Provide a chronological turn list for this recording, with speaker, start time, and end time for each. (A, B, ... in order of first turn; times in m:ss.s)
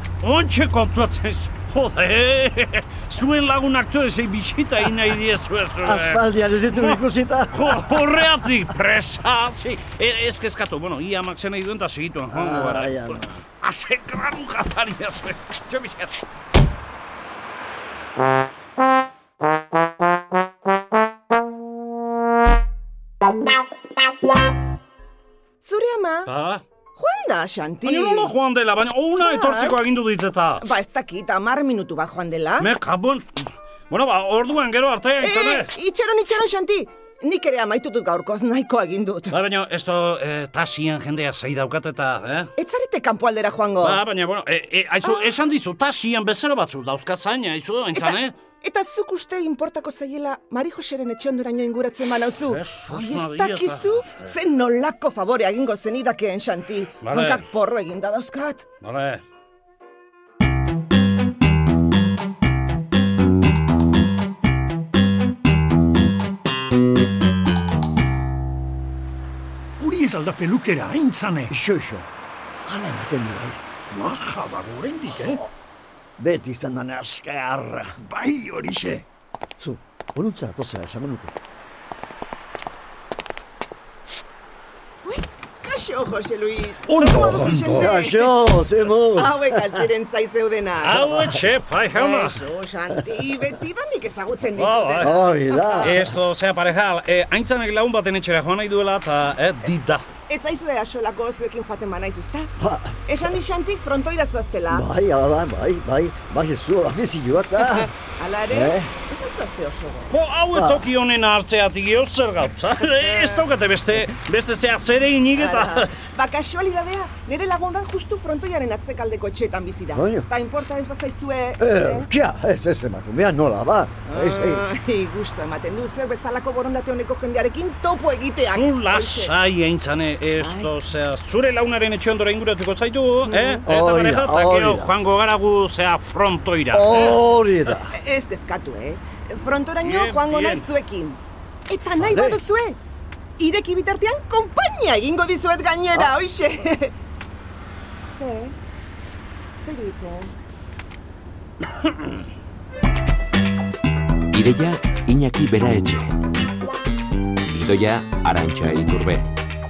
0:00.2-0:16.2 A
0:05.8-0:08.5 B
0:12.3-0:13.3 B
0:25.6-0:26.3 C
0:26.3-0:26.6 A
0:26.9-0:28.3 C
0:27.8-0:30.6 A
0:29.2-0:29.8 C
0:30.6-0:32.7 C
0:32.6-0:35.7 A
0:35.2-0:39.4 C
0:39.3-0:42.5 A
0:42.6-0:44.0 C
0:43.8-0:48.4 A
0:48.0-0:58.6 C
0:52.4-0:54.3 A
0:57.0-0:57.4 A
0:58.8-0:59.2 A
1:09.8-1:11.5 D
1:11.5-1:12.1 B
1:12.6-1:13.6 B
1:13.9-1:15.4 D
1:15.1-1:15.5 B
1:16.2-1:17.9 B
1:18.0-1:19.0 D
1:19.6-1:21.3 B
1:25.0-1:28.4 C
1:26.9-1:27.9 D
1:27.8-1:29.9 B
1:29.1-1:31.1 C
1:30.8-1:32.4 A
1:31.1-1:31.3 B
1:31.9-1:36.0 C
1:34.6-1:35.1 A
1:35.0-1:36.1 B
1:35.8-1:40.1 A
1:40.3-1:42.5 C
1:42.6-1:43.0 B
1:43.0-1:44.9 C
1:44.7-1:47.9 B
1:47.7-1:50.2 C
1:48.5-1:48.9 B
1:50.1-1:55.9 A
1:50.5-1:50.9 B
1:53.0-1:53.4 C
1:55.4-2:02.1 C
1:59.9-2:00.3 B
2:01.6-2:04.6 B
2:04.1-2:09.3 C
2:08.4-2:17.2 A
2:10.4-2:10.7 C
2:13.3-2:13.6 C
2:13.6-2:14.9 B
2:16.7-2:17.9 B
2:17.8-2:22.8 C
2:19.8-2:20.7 A
2:22.0-2:22.4 B
2:23.4-2:26.9 C
2:28.1-2:28.6 C
2:29.6-2:30.3 C
2:34.3-2:36.1 E
2:37.4-2:39.3 E